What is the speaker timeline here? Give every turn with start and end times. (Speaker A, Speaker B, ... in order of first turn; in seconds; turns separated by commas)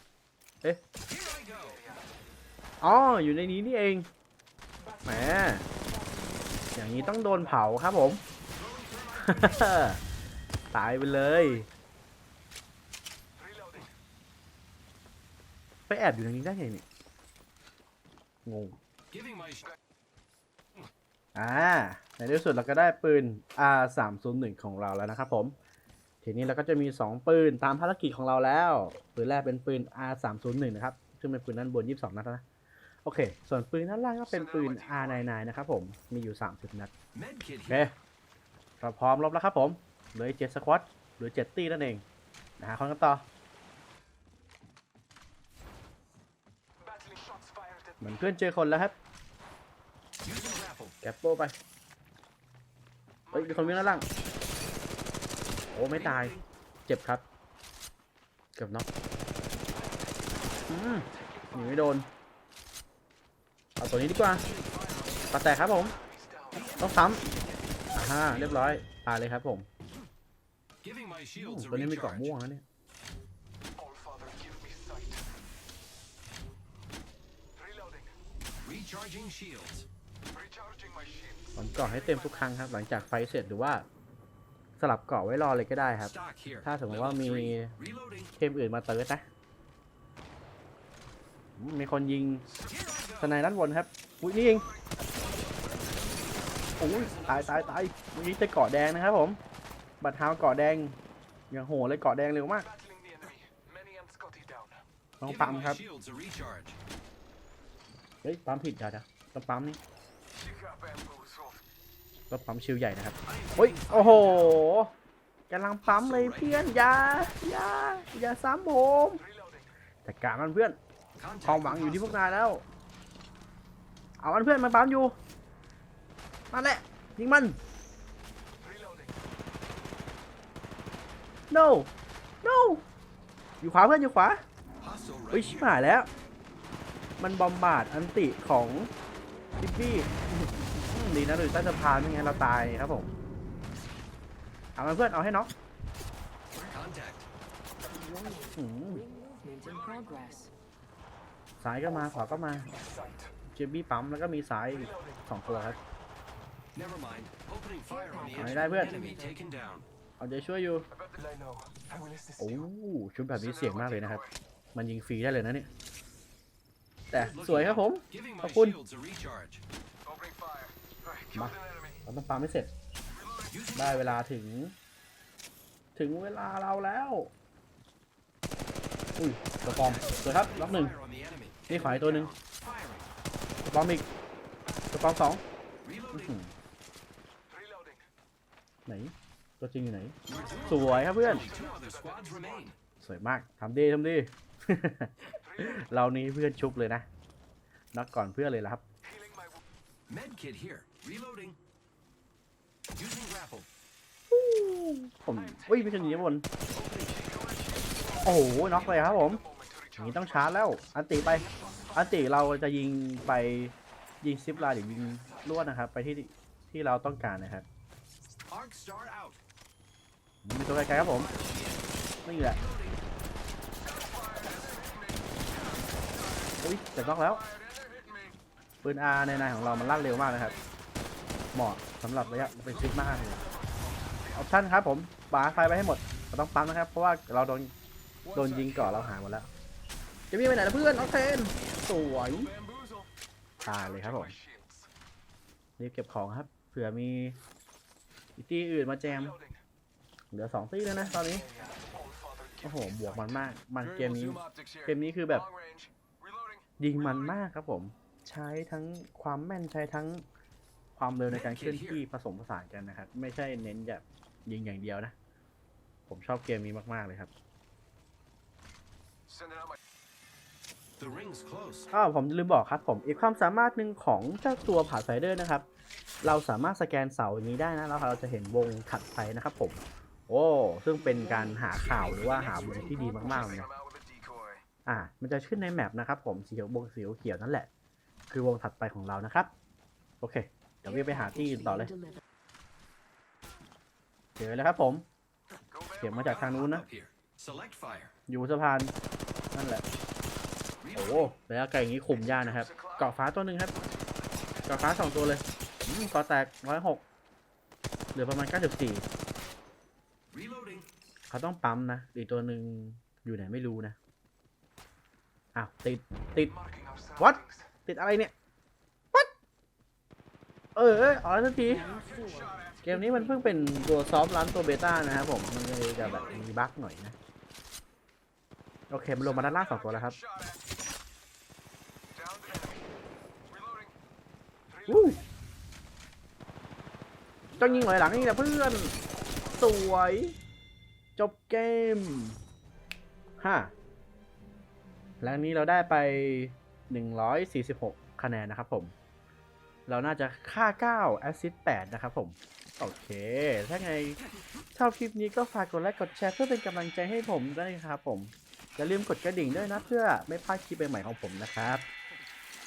Speaker A: 1.1-1.8, Speaker B: 1.6-2.0, Speaker C: 2.8-4.1, Speaker C: 5.0-5.7, Speaker C: 6.7-8.2, Speaker A: 8.5-9.7, Speaker C: 9.2-10.0, Speaker C: 10.7-11.7, Speaker B: 13.4-13.8, Speaker C: 15.9-16.8, Speaker C: 18.4-18.8, Speaker A: 19.1-19.7, Speaker C: 21.3-25.5, Speaker C: 26.2-32.4, Speaker C: 33.0-36.9, Speaker B: 34.3-35.2, Speaker A: 37.1-37.8, Speaker C: 37.7-37.9, Speaker C: 38.8-42.0, Speaker C: 42.6-43.2, Speaker B: 46.9-48.0, Speaker C: 48.0-48.9, Speaker A: 50.2-50.9, Speaker C: 51.0-51.5, Speaker B: 53.3-54.0, Speaker C: 53.3-54.0, Speaker C: 55.7-56.3, Speaker A: 55.9-56.4, Speaker C: 56.9-57.2, Speaker C: 58.5-58.9, Speaker C: 60.7-62.1, Speaker B: 61.2-61.6, Speaker C: 63.8-64.5, Speaker A: 64.4-64.8, Speaker C: 65.3-65.9, Speaker B: 65.7-66.7, Speaker A: 66.5-67.4, Speaker C: 66.8-67.2, Speaker A: 67.9-68.7, Speaker C: 67.9-69.7, Speaker A: 70.8-72.3, Speaker C: 71.3-72.6, Speaker B: 73.8-75.2, Speaker B: 77.6-78.1, Speaker A: 78.6-79.9, Speaker B: 80.3-82.4, Speaker C: 81.5-83.8, Speaker C: 84.8-87.7, Speaker A: 86.0-88.3, Speaker C: 88.4-89.2, Speaker C: 91.6-92.5, Speaker A: 92.7-93.3, Speaker C: 93.2-94.7, Speaker A: 95.9-97.8, Speaker C: 96.8-99.4, Speaker C: 100.0-101.0, Speaker C: 101.5-102.7, Speaker B: 102.7-104.8, Speaker C: 105.2-105.8, Speaker A: 105.2-106.8, Speaker C: 108.2-109.8, Speaker B: 110.4-111.6, Speaker C: 112.3-114.9, Speaker A: 113.2-114.6, Speaker C: 115.5-119.2, Speaker A: 115.8-116.7, Speaker C: 120.0-120.8, Speaker A: 121.2-122.2, Speaker C: 121.4-122.6, Speaker C: 124.2-125.1, Speaker C: 126.5-127.6, Speaker B: 128.6-129.0, Speaker C: 131.5-131.9, Speaker C: 132.4-132.8, Speaker C: 133.6-134.4, Speaker A: 134.8-135.8, Speaker C: 135.3-136.1, Speaker C: 137.2-138.9, Speaker C: 139.6-143.1, Speaker C: 144.8-145.5, Speaker A: 146.5-147.3, Speaker D: 147.9-150.5, Speaker C: 148.5-149.0, Speaker C: 151.6-152.7, Speaker B: 152.0-153.3, Speaker C: 153.5-155.8, Speaker B: 154.8-155.7, Speaker A: 156.7-159.8, Speaker D: 157.9-159.3, Speaker C: 158.3-158.9, Speaker C: 160.2-160.8, Speaker B: 160.9-162.6, Speaker C: 162.4-164.2, Speaker B: 163.6-164.3, Speaker C: 164.7-165.7, Speaker C: 167.1-168.8, Speaker A: 167.1-169.6, Speaker B: 170.1-172.0, Speaker C: 171.3-172.7, Speaker B: 173.2-173.5, Speaker A: 173.5-174.2, Speaker C: 173.7-174.7, Speaker C: 175.9-177.3, Speaker C: 179.2-180.9, Speaker A: 179.6-183.1, Speaker C: 181.7-182.3, Speaker C: 183.6-184.1, Speaker C: 184.9-185.4, Speaker A: 185.8-186.3, Speaker C: 186.1-186.5, Speaker B: 187.5-187.9, Speaker C: 188.9-190.2, Speaker A: 190.3-192.7, Speaker B: 190.4-192.5, Speaker C: 190.7-191.5, Speaker C: 193.0-197.1, Speaker C: 197.9-198.8, Speaker B: 199.1-199.4, Speaker A: 200.1-201.6, Speaker A: 202.9-203.7, Speaker C: 204.3-206.4, Speaker B: 205.4-206.3, Speaker A: 206.8-207.1, Speaker B: 207.2-210.5, Speaker C: 208.2-209.4, Speaker C: 210.0-217.6, Speaker B: 211.4-212.2, Speaker B: 214.9-215.4, Speaker A: 218.4-219.4, Speaker C: 220.4-221.3, Speaker A: 220.9-221.9, Speaker C: 222.2-222.6, Speaker A: 222.4-223.0, Speaker B: 224.0-225.1, Speaker C: 226.6-227.4, Speaker B: 227.7-228.3, Speaker C: 228.8-230.5, Speaker B: 229.8-230.3, Speaker C: 231.5-233.4, Speaker B: 232.5-233.5, Speaker C: 234.3-237.7, Speaker B: 238.3-239.0, Speaker C: 238.3-239.5, Speaker C: 240.3-242.5, Speaker B: 242.3-243.1, Speaker C: 243.6-244.3, Speaker B: 243.6-244.8, Speaker C: 245.8-247.4, Speaker C: 248.3-249.3, Speaker B: 249.2-249.5, Speaker C: 250.3-251.4, Speaker B: 251.2-253.4, Speaker C: 252.6-255.4, Speaker A: 253.8-254.2, Speaker B: 254.3-257.3, Speaker C: 256.8-260.2, Speaker C: 260.9-265.1, Speaker A: 261.3-262.0, Speaker C: 266.1-267.3, Speaker B: 269.4-269.7, Speaker A: 271.0-271.9, Speaker C: 271.9-275.6, Speaker C: 276.2-283.6, Speaker D: 281.1-281.5, Speaker A: 281.7-283.6, Speaker D: 282.8-283.3, Speaker B: 283.4-284.6, Speaker C: 284.9-287.7, Speaker C: 288.3-289.5, Speaker C: 290.2-291.9, Speaker D: 290.9-292.2, Speaker C: 294.4-295.0, Speaker B: 295.8-296.1, Speaker C: 296.0-296.9, Speaker A: 296.1-298.1, Speaker C: 298.3-298.9, Speaker C: 299.5-299.8, Speaker A: 300.8-301.3, Speaker C: 300.9-303.7, Speaker B: 302.6-303.0, Speaker C: 304.7-307.0, Speaker C: 308.1-309.0, Speaker A: 310.3-310.9, Speaker C: 311.3-313.9, Speaker C: 315.5-316.5, Speaker B: 316.7-317.5, Speaker C: 317.2-318.3, Speaker C: 320.7-321.9, Speaker D: 321.6-322.6, Speaker B: 321.9-322.7, Speaker C: 322.8-327.1, Speaker C: 328.9-330.1, Speaker B: 329.3-330.6, Speaker B: 332.2-332.8, Speaker B: 333.5-333.9, Speaker B: 334.8-335.2, Speaker C: 334.9-335.2, Speaker C: 337.5-338.9, Speaker B: 337.6-339.6, Speaker C: 339.5-340.3, Speaker C: 341.2-342.4, Speaker C: 343.4-343.7, Speaker C: 345.2-348.9, Speaker C: 349.9-354.2, Speaker C: 354.7-361.8